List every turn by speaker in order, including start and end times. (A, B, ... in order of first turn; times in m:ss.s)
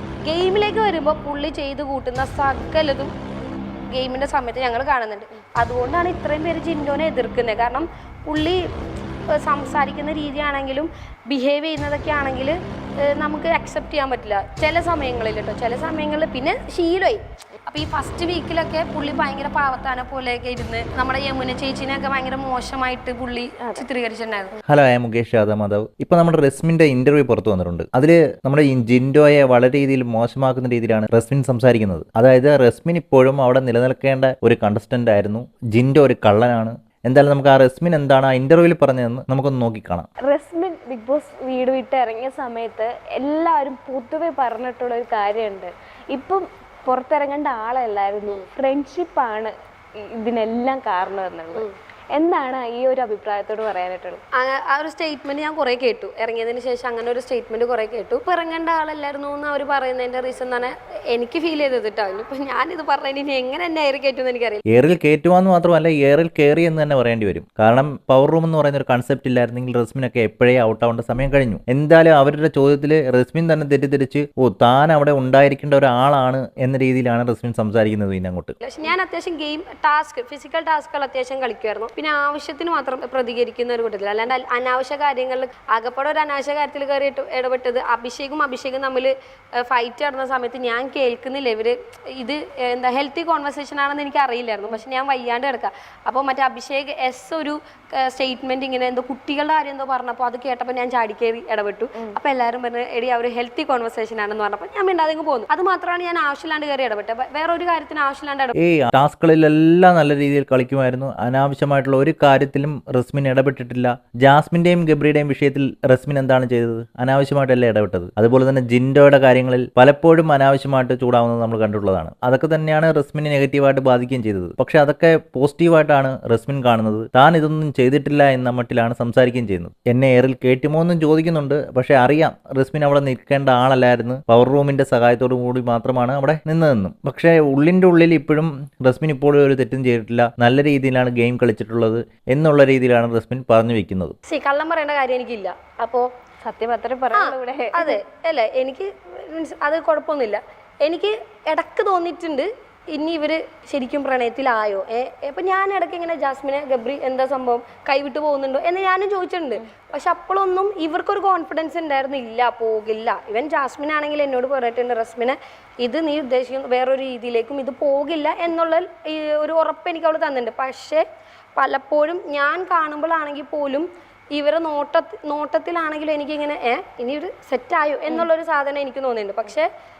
0:00.2-0:03.1 A
0:03.9-0:08.6 A
0:09.3-0:24.5 A
0:24.7-0:40.1 B
0:40.3-0:49.5 C
0:50.1-0:54.2 C
0:54.3-1:04.6 A
1:04.7-1:18.5 B
1:18.6-1:48.5 A
1:48.6-2:24.2 B
2:24.3-2:26.1 A
2:26.4-2:28.0 C
2:27.1-2:51.0 A
2:51.6-2:59.7 A